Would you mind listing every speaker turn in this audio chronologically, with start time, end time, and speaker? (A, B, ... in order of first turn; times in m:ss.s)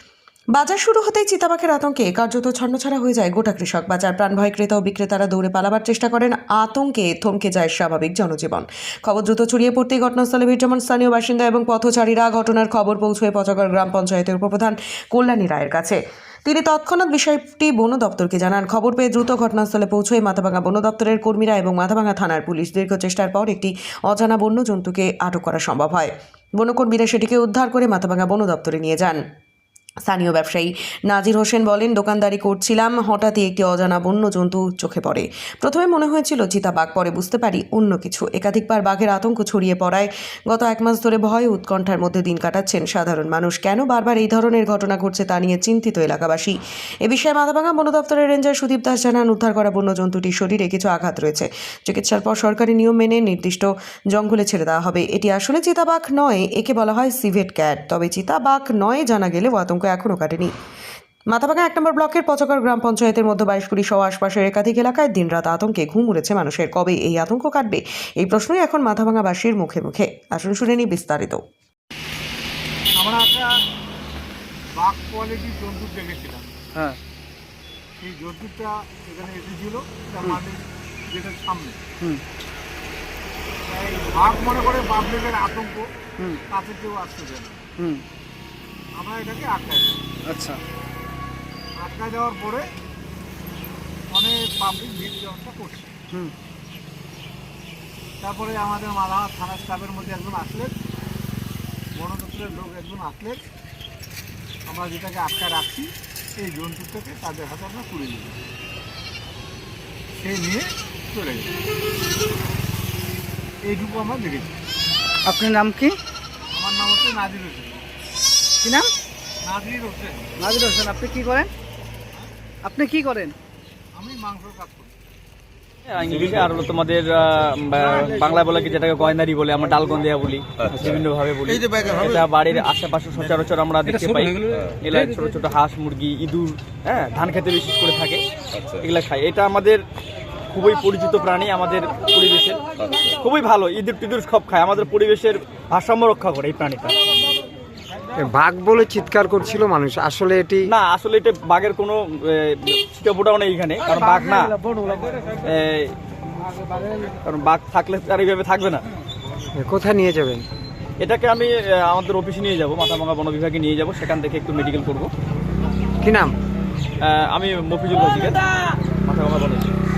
0:00.5-0:29.2 A
0:30.1-1:00.5 A
1:01.3-1:11.4 A
1:13.0-1:13.5 B
1:14.7-1:16.5 B
1:18.0-1:21.8 B
1:23.7-1:25.9 B
1:26.5-1:27.6 B
1:27.8-1:28.0 C
1:29.0-1:30.0 B
1:30.3-1:30.6 C
1:31.8-1:32.7 B
1:34.1-1:35.9 B
1:38.2-1:40.7 B
1:41.9-1:43.4 B
1:44.7-1:48.4 B
1:50.2-1:51.5 B
1:53.6-1:54.5 B
1:55.2-1:56.0 C
1:56.5-1:57.9 B
1:58.6-1:58.9 C
1:59.4-2:00.3 B
2:00.4-2:01.5 C
2:02.6-2:03.4 C
2:04.0-2:04.9 B
2:05.9-2:18.2 D
2:18.8-2:19.8 D
2:20.5-2:22.6 D
2:23.2-2:27.0 D
2:28.2-2:30.7 E
2:30.7-2:34.6 D
2:35.4-2:35.9 D
2:37.2-2:38.8 D
2:39.6-2:40.4 E
2:41.0-2:45.1 D
2:46.0-2:46.3 E
2:47.0-2:48.4 D
2:49.0-2:49.7 D